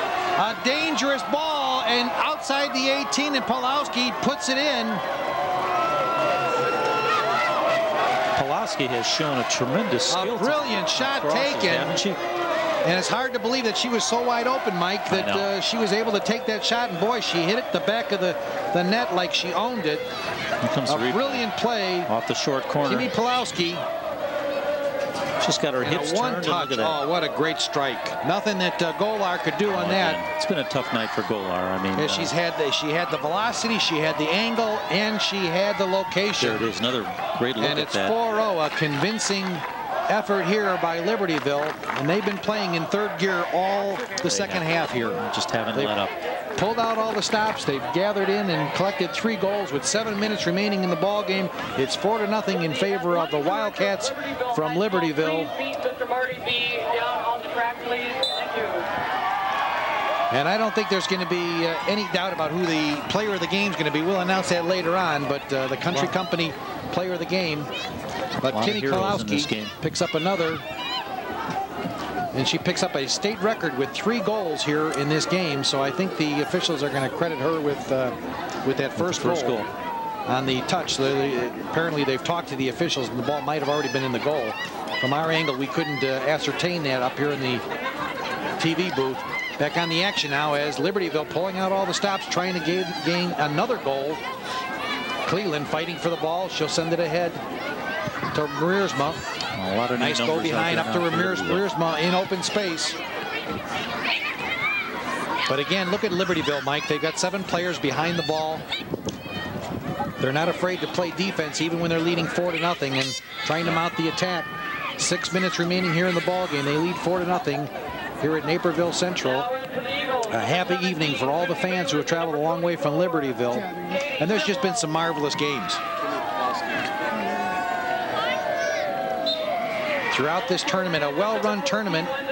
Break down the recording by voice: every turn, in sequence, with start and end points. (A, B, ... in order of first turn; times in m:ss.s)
0:00.4-0:05.0 A
0:08.4-0:12.2 B
0:10.1-0:12.0 A
0:12.8-0:20.1 A
0:15.1-0:15.5 B
0:20.6-0:21.5 B
0:20.9-0:22.1 A
0:22.1-0:23.1 B
0:22.9-0:23.8 A
0:25.4-0:27.0 B
0:25.8-0:30.2 A
0:29.7-0:32.3 B
0:32.0-0:36.7 A
0:36.4-0:38.2 B
0:37.6-0:45.2 A
0:44.2-0:46.2 B
0:46.6-0:55.5 A
0:55.8-0:58.8 C
1:00.3-1:07.7 A
1:08.4-1:10.6 A
1:08.5-1:09.8 B
1:12.3-1:19.6 A
1:19.0-1:19.7 B
1:20.3-1:27.6 A
1:28.6-1:34.2 A
1:35.2-1:37.4 A
1:38.3-1:39.2 A
1:39.6-1:41.7 B
1:40.0-1:43.0 A
1:45.5-1:48.6 A
1:50.2-1:59.5 A
2:00.3-2:05.8 A
2:10.1-2:12.1 A